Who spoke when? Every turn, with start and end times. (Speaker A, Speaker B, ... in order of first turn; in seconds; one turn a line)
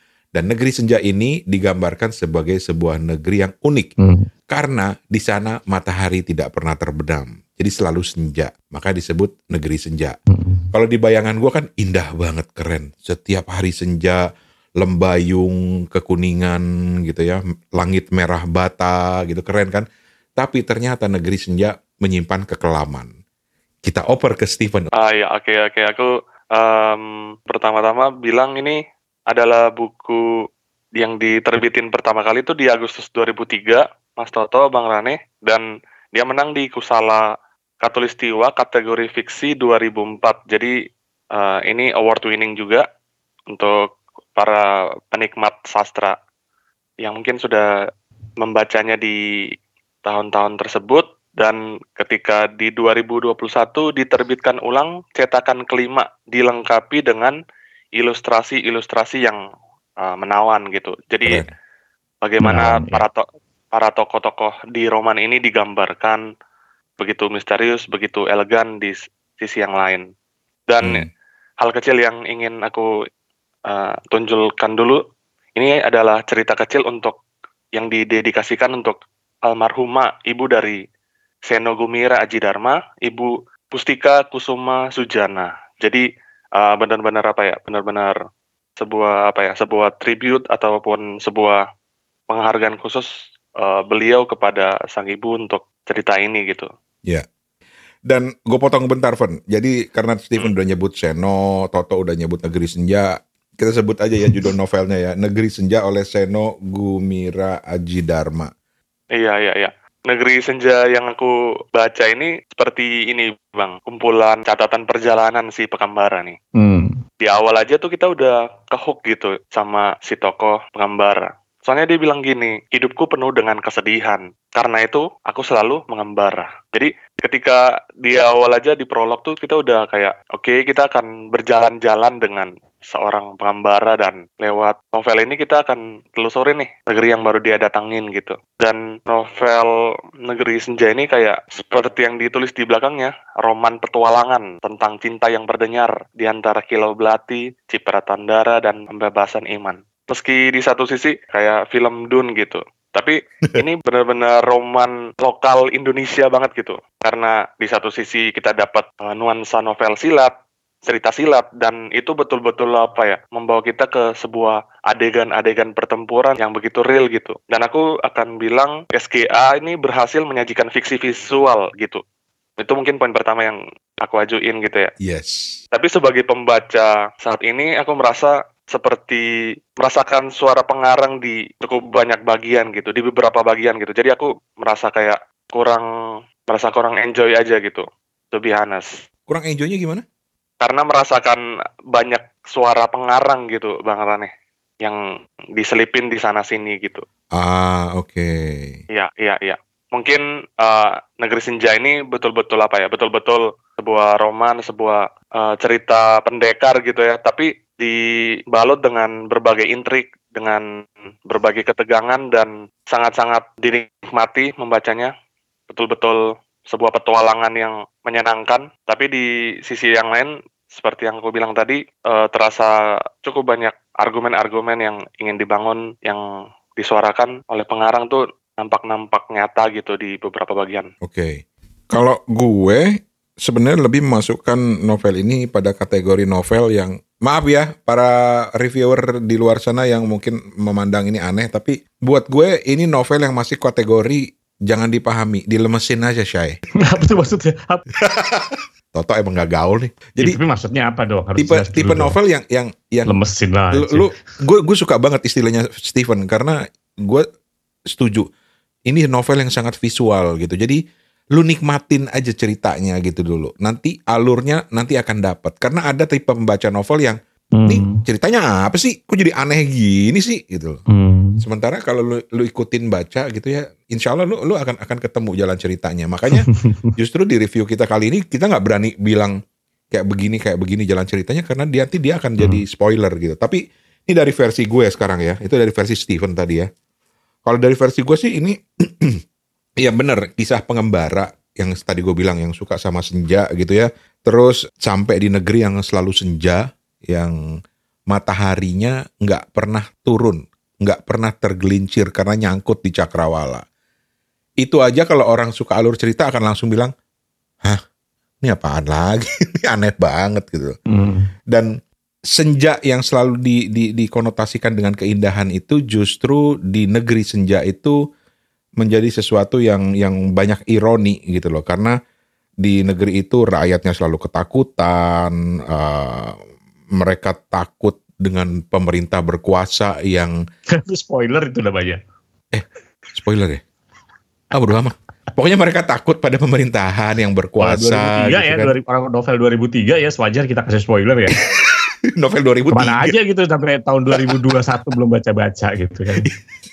Speaker A: 0.3-3.9
Speaker B: 4.0-4.3
Speaker A: 4.5-10.2
Speaker B: 10.3-10.7
Speaker A: 10.7-14.3
Speaker A: 14.8-19.9
Speaker A: 20.4-23.1
Speaker A: 23.8-24.9
Speaker C: 24.9-30.2
Speaker C: 31.0-37.3
Speaker C: 37.8-40.7
Speaker C: 41.3-42.9
Speaker C: 43.5-46.2
Speaker C: 47.0-47.7
Speaker C: 48.4-49.2
Speaker C: 50.0-57.4
Speaker C: 58.0-59.4
Speaker C: 60.0-61.5
Speaker C: 62.2-66.2
Speaker B: 62.4-63.0
Speaker C: 67.0-70.0
Speaker C: 70.7-71.1
Speaker C: 71.6-72.9
Speaker C: 73.7-75.0
Speaker C: 75.6-77.2
Speaker C: 77.8-80.8
Speaker C: 81.5-86.0
Speaker C: 86.6-88.2
Speaker C: 88.8-91.6
Speaker C: 92.3-96.7
Speaker A: 98.1-108.5
Speaker C: 109.2-116.4
Speaker B: 116.6-117.0
Speaker C: 117.2-139.7
Speaker C: 140.2-160.3
Speaker C: 160.8-172.0
Speaker C: 172.6-174.9
Speaker A: 175.0-175.6
Speaker C: 175.7-179.3
Speaker C: 179.8-185.8
Speaker C: 186.5-188.9
Speaker A: 189.3-190.0
Speaker C: 190.6-194.3
Speaker C: 195.6-197.0
Speaker A: 197.4-198.8
Speaker C: 198.9-208.0
Speaker C: 208.5-210.7
Speaker C: 211.3-215.1
Speaker C: 215.7-226.2
Speaker C: 226.8-230.9
Speaker A: 231.0-246.6
Speaker B: 246.8-247.8
Speaker A: 247.9-250.4
Speaker B: 250.2-252.2
Speaker A: 251.4-253.2
Speaker B: 253.1-254.1
Speaker A: 253.7-257.3
Speaker A: 257.9-258.3
Speaker A: 258.9-260.8
Speaker A: 261.4-270.8
Speaker B: 267.6-268.1
Speaker B: 270.9-271.4
Speaker A: 271.4-279.4
Speaker B: 276.3-276.9
Speaker A: 279.9-286.7
Speaker A: 287.5-289.2
Speaker A: 289.8-297.4
Speaker A: 298.1-303.6
Speaker A: 304.6-306.9
Speaker A: 308.4-310.8
Speaker B: 310.9-311.3
Speaker A: 312.3-318.0
Speaker A: 318.8-321.9
Speaker A: 322.6-326.4
Speaker A: 327.0-330.4
Speaker B: 330.7-332.0
Speaker A: 332.5-333.6
Speaker A: 334.5-338.7
Speaker B: 337.6-341.4
Speaker A: 341.4-343.2
Speaker B: 342.7-346.3
Speaker A: 344.1-344.6